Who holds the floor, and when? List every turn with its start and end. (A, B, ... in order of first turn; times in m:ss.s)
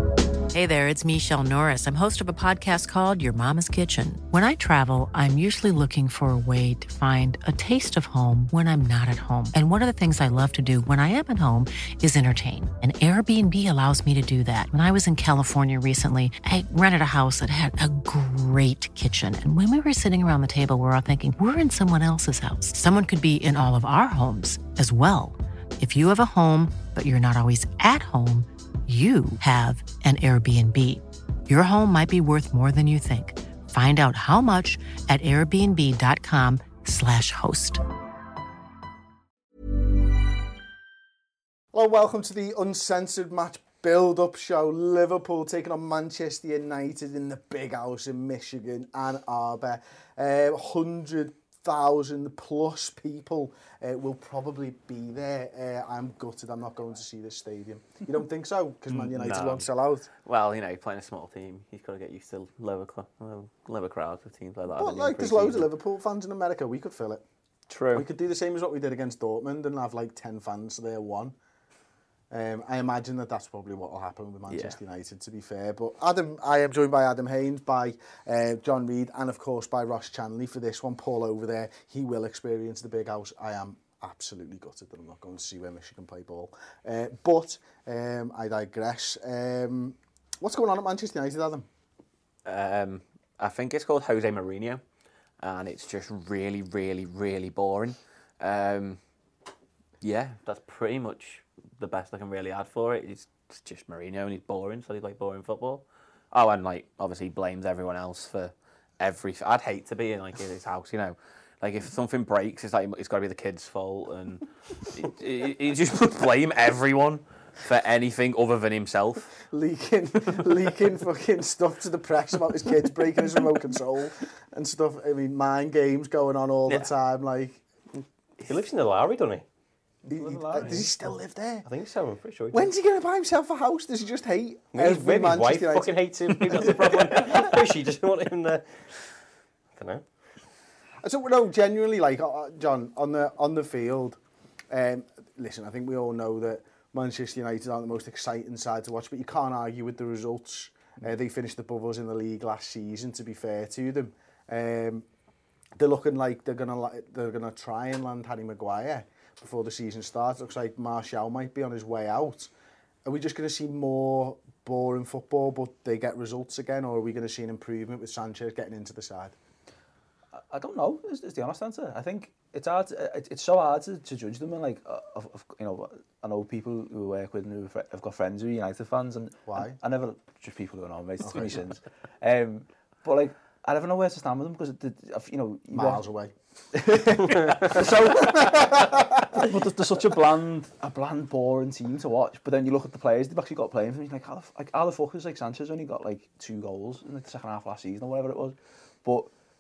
0:00.5-0:37.8 A
0:41.7-1:00.1 B
0:58.9-0:59.7 C
1:00.2-1:05.7 C
1:04.7-1:07.2 B
1:07.7-1:08.1 C
1:07.9-1:11.3 B
1:12.3-1:31.7 B
1:14.5-1:14.8 C
1:32.4-1:34.8 C
1:35.4-1:39.0 C
1:40.0-1:59.3 C
1:59.5-2:07.6 B
2:08.4-2:09.4 D
2:10.0-2:10.9 E
2:10.1-2:11.7 B
2:11.6-2:12.7 D
2:12.5-2:17.3 B
2:14.7-2:19.0 D
2:19.8-2:20.0 D
2:21.0-2:24.2 B
2:24.7-2:35.0 B
2:35.8-2:42.5 B
2:43.0-2:49.3 B
2:50.4-3:06.0 E
2:59.5-2:59.8 B
3:01.2-3:01.5 B
3:05.7-3:06.3 B
3:06.7-3:19.3 E
3:08.2-3:09.4 B